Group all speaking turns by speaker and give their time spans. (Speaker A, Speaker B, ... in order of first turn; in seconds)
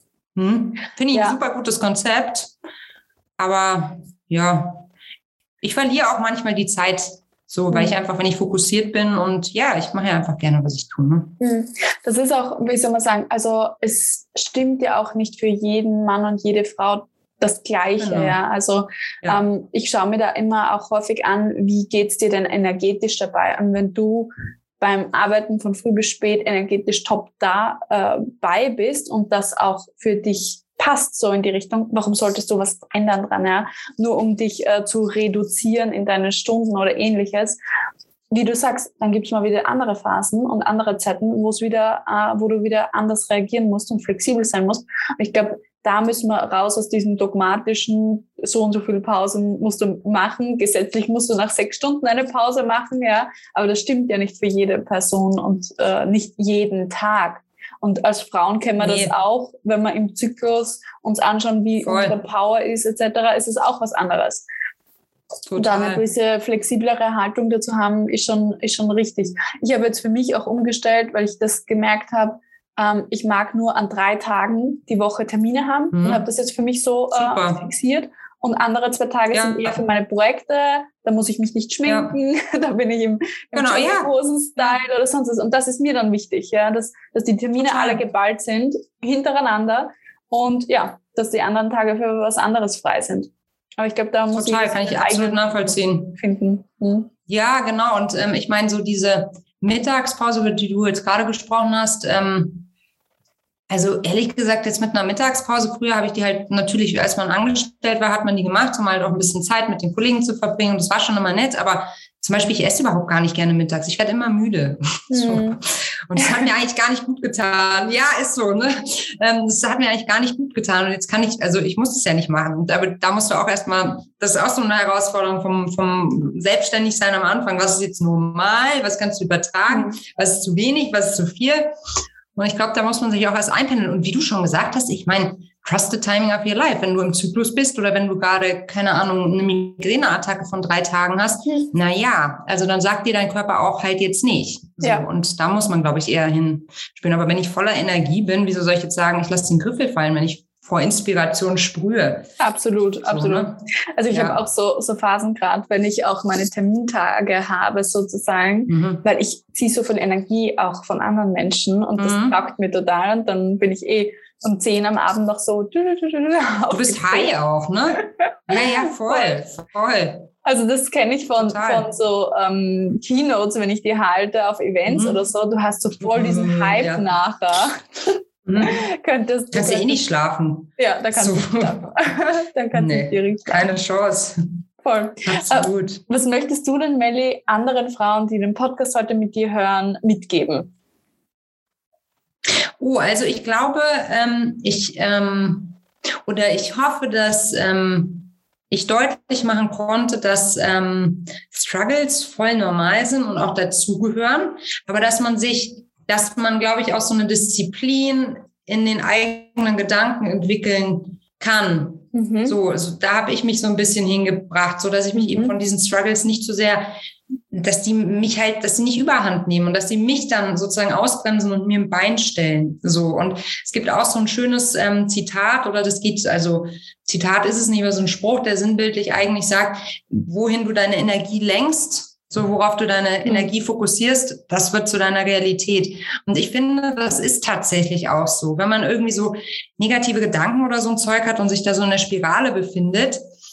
Speaker A: 0.4-2.5, 3.4-4.8, 5.6-11.3, 18.0-18.4, 58.8-59.1, 61.8-62.2, 65.5-66.0, 75.9-76.2, 77.1-77.6, 79.3-79.8, 81.9-82.2, 83.5-84.7, 87.6-88.0, 94.3-96.2, 97.3-102.7, 103.7-131.7, 132.3-152.3, 153.0-154.4, 158.7-159.0, 162.0-162.3, 166.7-170.3, 171.4-171.9, 174.9-175.2, 176.0-177.1, 178.4-178.8, 179.5-181.8, 182.7-184.4, 185.2-186.0, 192.8-216.9, 217.5-243.2
Speaker B: 1.1-1.4, 11.4-37.6, 38.3-64.5, 65.6-97.1, 115.1-115.6, 116.2-116.4, 129.7-130.0, 152.4-167.3, 168.5-169.4, 170.4-180.0, 180.8-183.7, 184.8-190.7, 212.1-212.6, 215.1-215.6